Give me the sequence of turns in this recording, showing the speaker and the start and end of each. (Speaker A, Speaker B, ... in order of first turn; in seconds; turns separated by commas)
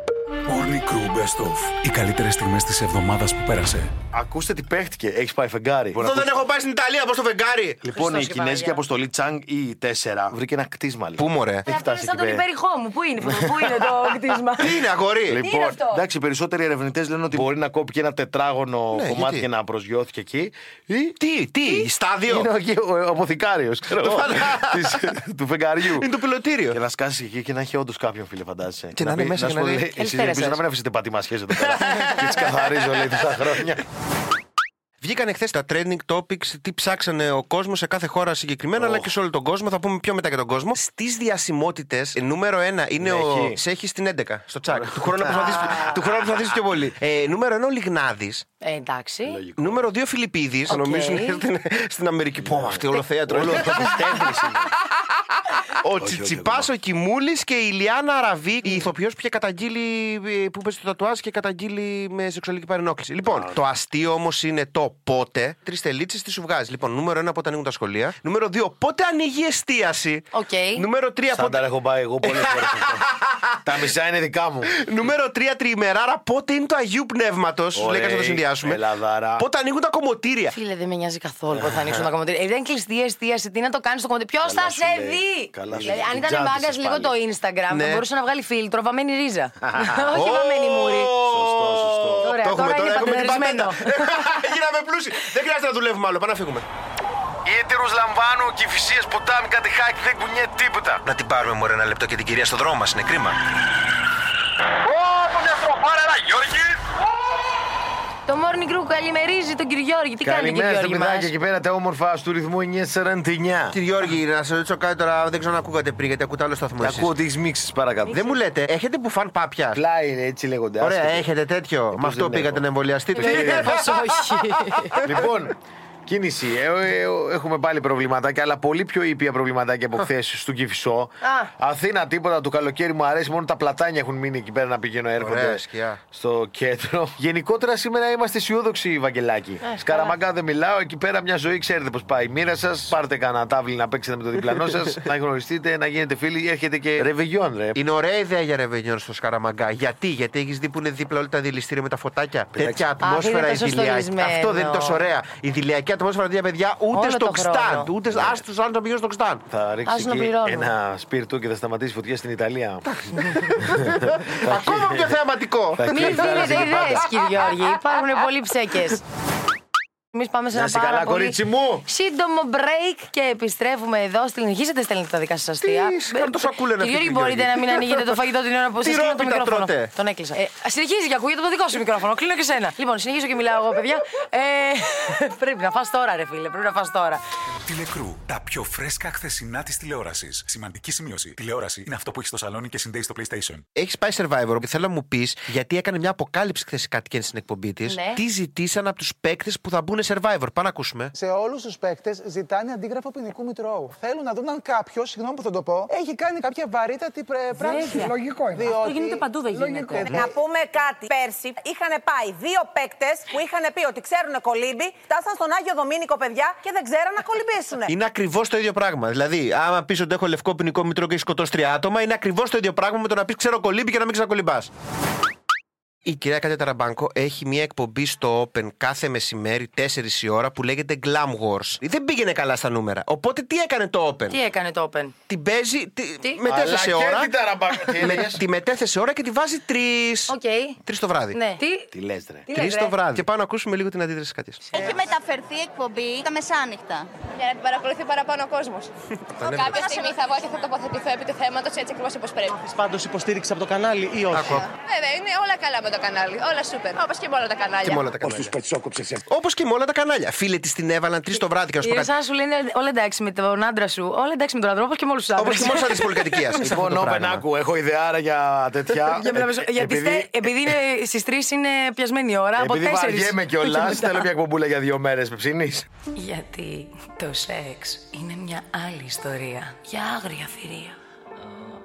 Speaker A: 0.5-3.9, Speaker B: 4.1-6.3, Speaker C: 6.0-7.8, Speaker B: 7.8-12.5, Speaker D: 7.9-8.8, Speaker C: 11.2-11.7, Speaker D: 11.7-14.9, Speaker B: 13.2-14.1, Speaker C: 14.6-15.4, Speaker B: 15.3-21.0, Speaker D: 15.4-16.1, Speaker C: 18.9-19.5, Speaker C: 21.0-22.5, Speaker B: 22.3-26.1, Speaker C: 24.0-25.0, Speaker C: 25.9-26.8, Speaker B: 26.7-33.8, Speaker C: 28.9-29.9, Speaker D: 30.0-30.6, Speaker C: 31.8-32.6, Speaker C: 35.0-48.5, Speaker B: 38.8-39.1, Speaker B: 43.0-43.6, Speaker B: 44.7-46.0, Speaker D: 45.3-46.0, Speaker D: 48.6-49.4, Speaker B: 49.3-49.8, Speaker C: 49.6-54.4, Speaker D: 50.7-51.4, Speaker B: 52.4-54.7, Speaker D: 53.8-54.1, Speaker C: 55.8-71.6, Speaker B: 56.0-56.7, Speaker B: 63.2-63.6, Speaker D: 70.3-70.8, Speaker B: 71.3-73.1, Speaker C: 72.2-73.5, Speaker B: 73.7-74.7, Speaker C: 74.8-78.8, Speaker B: 77.8-79.5, Speaker C: 79.4-80.6, Speaker D: 80.5-91.1, Speaker B: 81.5-82.1, Speaker B: 84.4-87.2, Speaker C: 85.7-86.0, Speaker C: 87.7-88.0, Speaker B: 89.6-90.2, Speaker C: 90.1-96.7, Speaker B: 91.2-92.4, Speaker D: 92.2-94.2, Speaker B: 97.5-101.0, Speaker C: 101.0-103.4, Speaker B: 104.8-106.8, Speaker D: 108.3-111.3, Speaker B: 110.2-113.8, Speaker C: 113.7-117.2, Speaker B: 116.8-118.3, Speaker C: 118.1-119.8, Speaker B: 119.7-121.3, Speaker C: 120.8-125.0, Speaker B: 121.9-122.6, Speaker B: 123.2-123.8, Speaker D: 123.3-124.5, Speaker B: 125.0-125.5, Speaker B: 126.1-147.8, Speaker D: 131.2-131.5, Speaker C: 135.2-136.0, Speaker D: 139.6-140.1, Speaker C: 147.8-159.4, Speaker B: 152.6-152.8, Speaker D: 153.0-155.1, Speaker D: 156.9-157.9, Speaker B: 158.1-158.4, Speaker B: 159.5-162.9, Speaker D: 159.9-160.7, Speaker C: 162.9-166.9, Speaker B: 164.5-165.1, Speaker B: 165.8-167.1, Speaker D: 165.9-169.0, Speaker D: 170.1-187.2, Speaker B: 170.5-171.8, Speaker C: 175.6-178.2, Speaker C: 178.8-179.9, Speaker A: 187.7-193.6, Speaker C: 193.8-201.1, Speaker D: 197.9-198.2, Speaker E: 201.2-210.3, Speaker F: 209.9-217.9, Speaker C: 217.9-224.7, Speaker C: 226.1-234.4, Speaker D: 234.3-235.2, Speaker C: 235.3-237.3, Speaker B: 236.4-238.4, Speaker C: 238.0-241.4, Speaker D: 240.3-240.8, Speaker D: 241.3-241.9, Speaker B: 241.9-242.5, Speaker D: 242.5-243.2, Speaker C: 242.5-244.6, Speaker G: 244.7-247.1, Speaker H: 247.3-248.9, Speaker C: 249.3-249.9, Speaker H: 249.4-252.6, Speaker G: 249.9-250.2, Speaker I: 252.7-254.6, Speaker C: 254.3-254.7, Speaker H: 254.8-258.0, Speaker C: 257.8-258.6, Speaker I: 258.5-259.2, Speaker C: 259.3-262.1, Speaker D: 261.8-266.4, Speaker C: 265.4-267.4, Speaker B: 266.6-270.7, Speaker D: 268.9-274.3, Speaker B: 272.6-275.9, Speaker D: 276.1-281.0